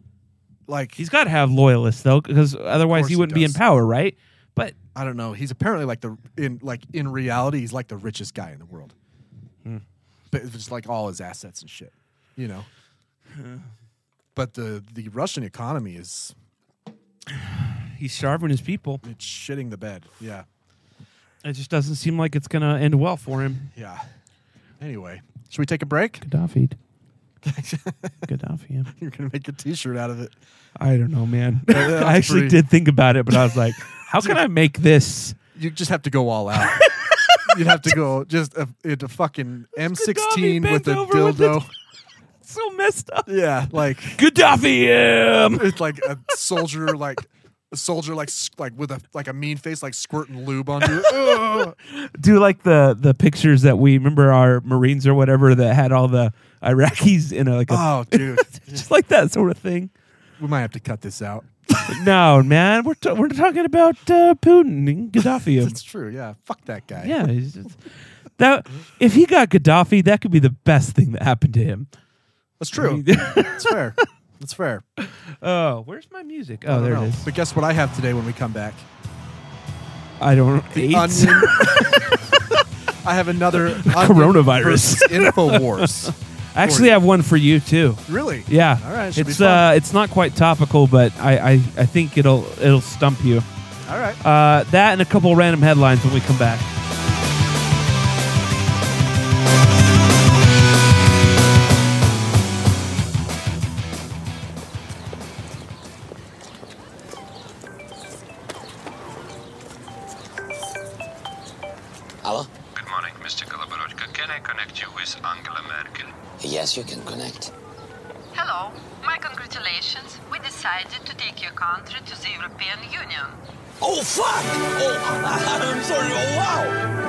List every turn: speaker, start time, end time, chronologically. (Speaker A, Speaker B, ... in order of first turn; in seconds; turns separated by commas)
Speaker A: 0.7-1.0, Speaker B: 1.0-4.8, Speaker A: 2.9-3.6, Speaker A: 5.0-8.9, Speaker A: 10.3-12.7, Speaker A: 14.3-16.3, Speaker B: 17.3-19.0, Speaker A: 19.0-20.5, Speaker B: 21.4-23.7, Speaker A: 23.7-24.1, Speaker A: 24.8-26.2, Speaker B: 26.2-26.8, Speaker A: 27.4-28.2, Speaker B: 28.3-28.9, Speaker A: 28.9-30.4, Speaker B: 30.8-35.4, Speaker A: 31.7-32.6, Speaker A: 33.3-33.6, Speaker A: 35.5-36.8, Speaker B: 36.8-37.9, Speaker A: 37.5-41.7, Speaker B: 39.8-41.6, Speaker B: 42.4-43.3, Speaker A: 43.3-44.2, Speaker B: 44.1-45.8, Speaker A: 45.5-51.8, Speaker B: 50.8-59.9, Speaker A: 57.7-58.9, Speaker A: 60.4-61.9, Speaker B: 61.9-65.8, Speaker A: 65.6-67.2, Speaker B: 67.0-67.8, Speaker B: 68.4-71.9, Speaker A: 72.6-74.8, Speaker B: 72.8-73.8, Speaker B: 75.0-77.3, Speaker A: 76.7-78.8, Speaker B: 80.2-82.6, Speaker A: 80.7-82.2, Speaker A: 83.0-87.0, Speaker B: 83.6-93.5, Speaker A: 88.1-89.7, Speaker A: 93.9-94.2, Speaker B: 94.2-96.7, Speaker C: 112.2-112.5, Speaker D: 112.8-116.0, Speaker C: 116.4-117.5, Speaker E: 118.3-123.4, Speaker C: 123.8-126.8